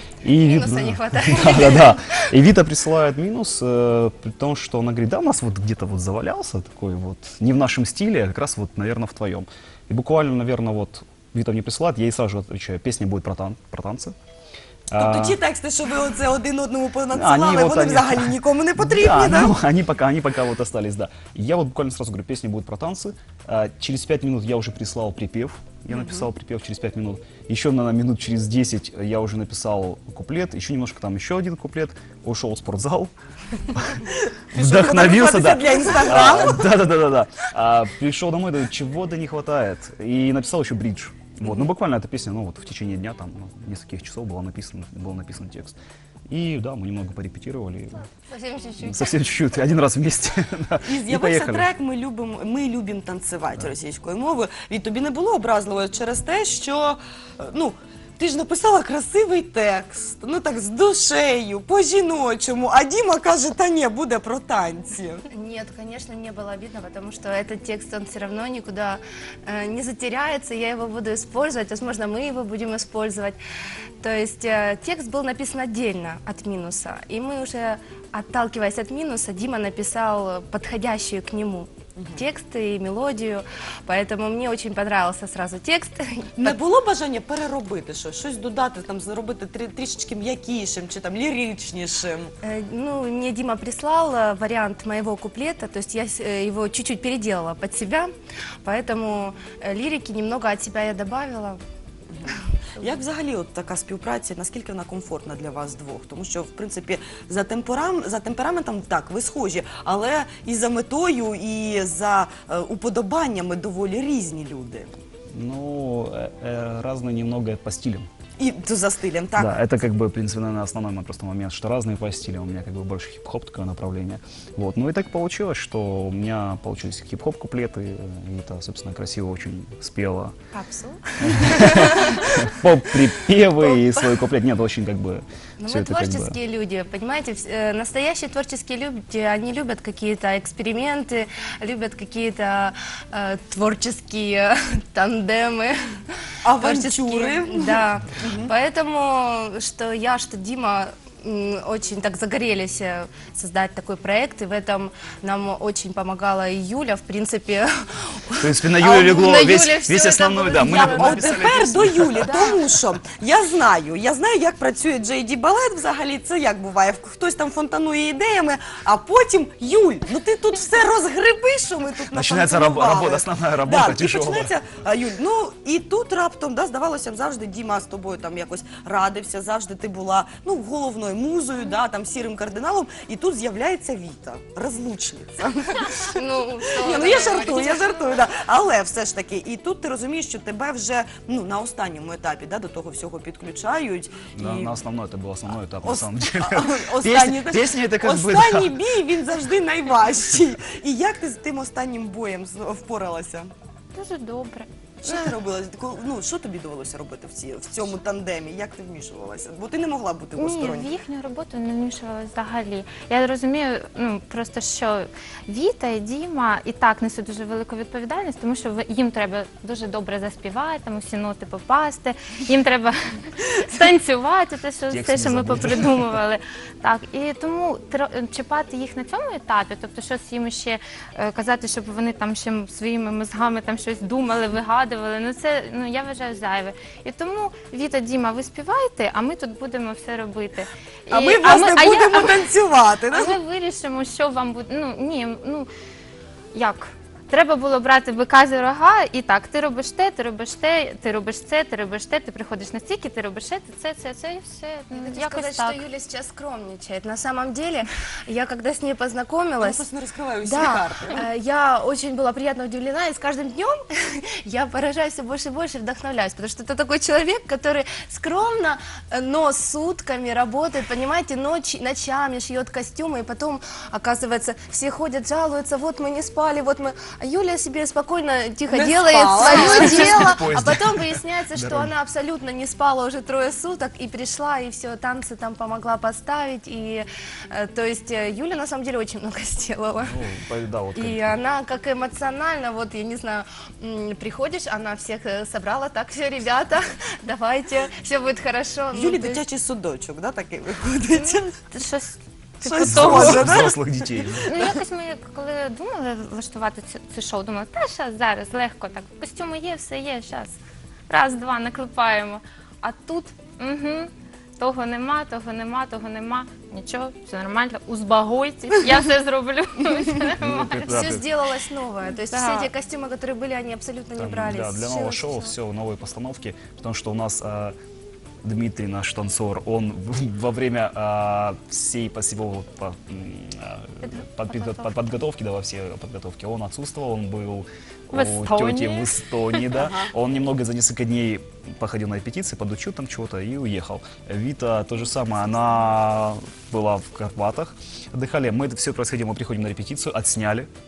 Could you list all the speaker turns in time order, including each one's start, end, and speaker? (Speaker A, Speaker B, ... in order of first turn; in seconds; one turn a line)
Speaker A: 0.2-14.1
Speaker B: 0.3-2.2
Speaker A: 14.9-15.4
Speaker C: 15.0-19.5
Speaker A: 17.1-33.1
Speaker C: 25.9-26.2
Speaker A: 33.7-34.0
Speaker A: 34.5-45.8
Speaker C: 34.5-36.7
Speaker A: 46.3-48.0
Speaker B: 48.1-49.2
Speaker A: 48.8-51.7
Speaker C: 50.8-65.2
Speaker B: 65.3-73.4
Speaker B: 74.0-86.6
Speaker C: 82.0-82.2
Speaker C: 86.4-92.3
Speaker B: 92.4-98.1
Speaker B: 98.6-101.6
Speaker C: 102.1-114.9
Speaker A: 115.3-118.1
Speaker C: 118.4-119.6
Speaker A: 119.3-130.3
Speaker B: 130.5-132.3
Speaker A: 131.2-136.4
Speaker B: 133.7-134.1
Speaker B: 135.6-145.8
Speaker C: 146.4-148.5
Speaker B: 146.6-161.6
Speaker A: 158.4-162.5
Speaker C: 160.6-186.2
Speaker B: 162.2-162.6
Speaker A: 172.1-174.5
Speaker B: 186.1-187.9
Speaker C: 186.8-194.8
Speaker A: 194.3-198.8
Speaker C: 195.8-203.5
Speaker D: 203.9-205.3
Speaker C: 205.0-210.9
Speaker D: 210.3-242.5
Speaker A: 224.9-226.1
Speaker C: 241.1-243.4
Speaker D: 243.1-245.7
Speaker D: 246.5-255.8
Speaker B: 254.9-259.8
Speaker C: 259.6-261.2
Speaker B: 260.4-290.2
Speaker C: 278.7-280.3
Speaker A: 279.6-281.9
Speaker A: 290.0-291.3
Speaker B: 290.9-299.4
Speaker C: 298.9-301.5
Speaker D: 301.1-303.7
Speaker C: 302.6-304.5
Speaker A: 302.8-304.6
Speaker D: 304.4-310.5
Speaker D: 311.1-321.1
Speaker A: 320.4-321.2
Speaker B: 320.9-325.5
Speaker D: 322.0-322.7
Speaker A: 324.2-327.8
Speaker A: 328.4-350.7
Speaker D: 334.0-335.1
Speaker D: 338.1-339.7
Speaker C: 339.8-340.1